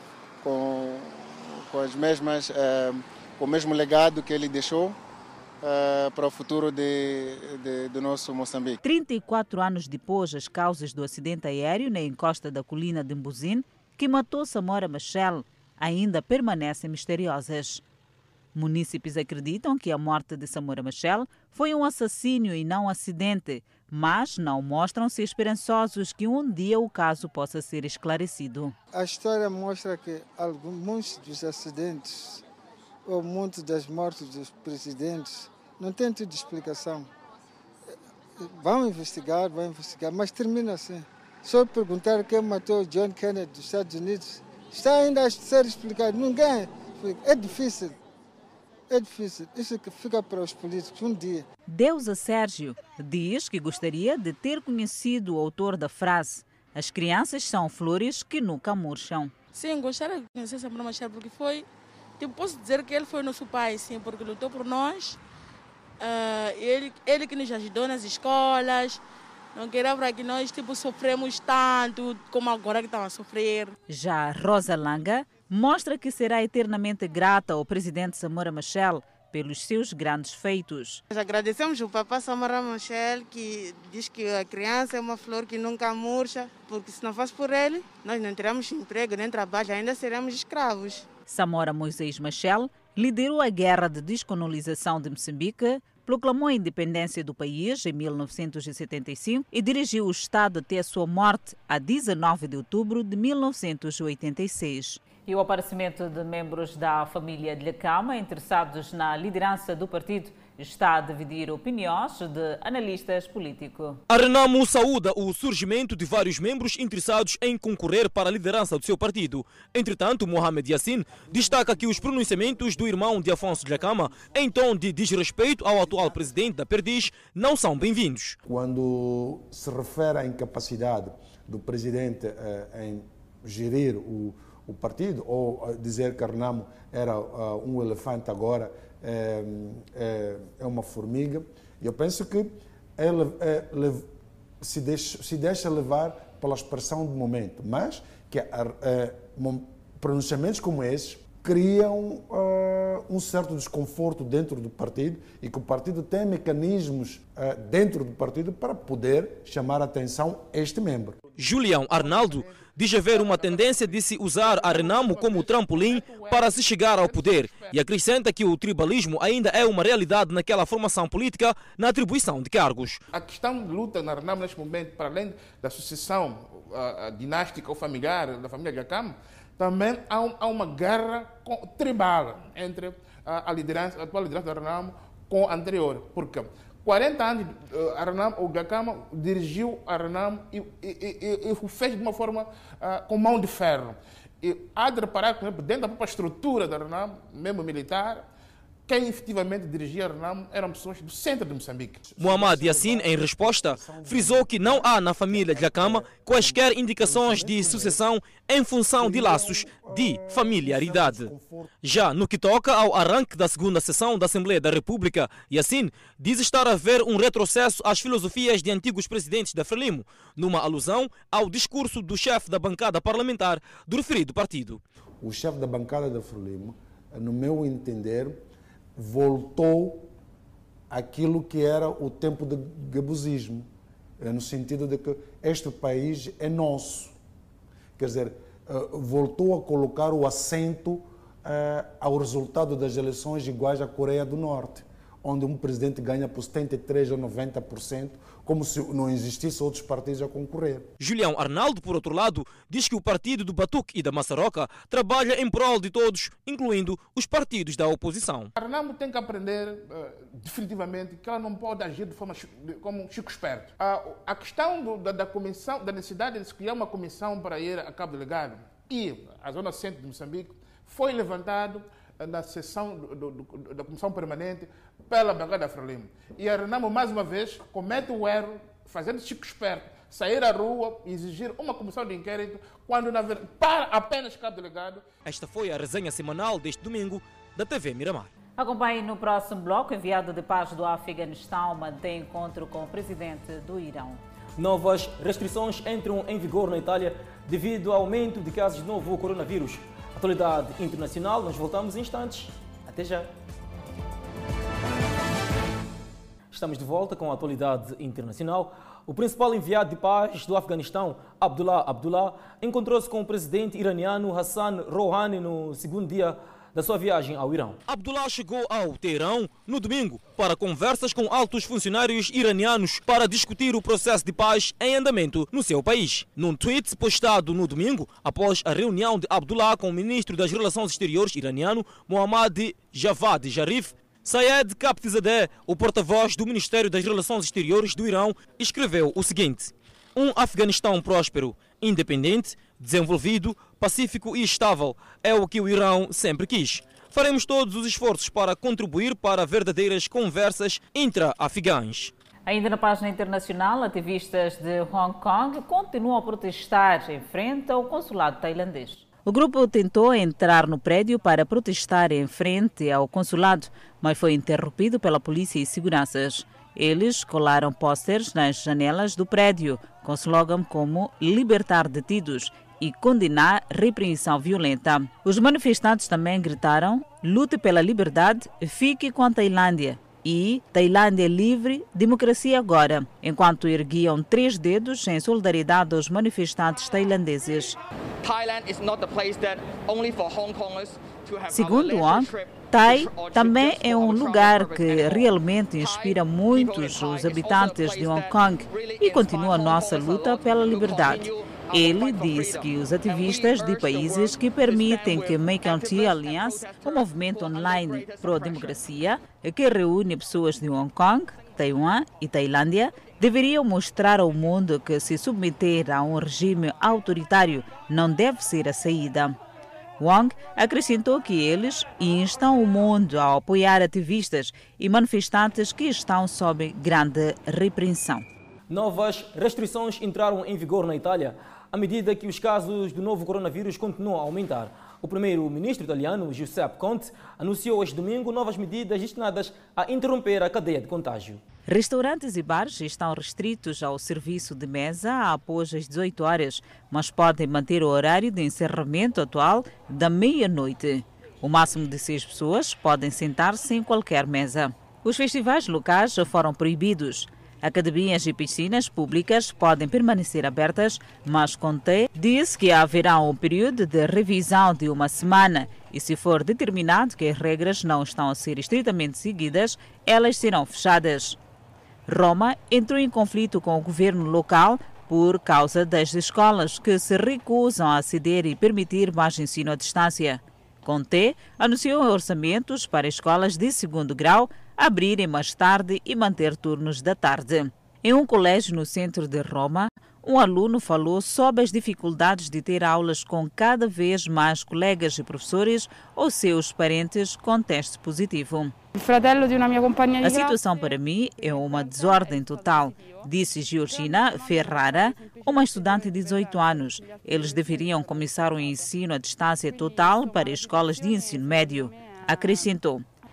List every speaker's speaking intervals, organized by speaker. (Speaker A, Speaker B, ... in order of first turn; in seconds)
Speaker A: 0.5-4.9, 5.6-8.7, 28.9-32.4, 33.1-37.0, 38.6-47.9, 48.9-51.4
Speaker B: 8.8-17.8, 18.5-28.7, 51.7-59.3, 73.9-81.0, 91.3-114.0, 288.6-294.2, 352.4-387.8, 391.5-419.4, 420.0-428.3, 441.7-471.4, 472.1-498.7, 500.2-513.0
Speaker C: 59.6-61.6, 62.2-65.1, 66.0-69.0, 69.6-73.7, 81.2-82.4, 83.2-84.4, 86.4-90.1, 388.2-408.8, 498.9-500.9, 501.5-503.3, 503.8-508.8, 509.8-511.4, 511.9-512.4
Speaker D: 114.1-128.4, 161.4-173.0, 202.2-224.8, 251.0-258.5, 285.2-288.3, 294.6-303.3, 306.5-352.1, 428.7-441.4
Speaker E: 128.5-144.1, 144.6-161.2, 202.0-208.0, 209.0-212.0, 225.2-228.4, 229.0-230.1, 230.9-233.7, 234.2-237.2, 238.0-250.9
Speaker F: 161.8-167.8, 173.1-198.2, 198.9-202.0, 258.6-285.0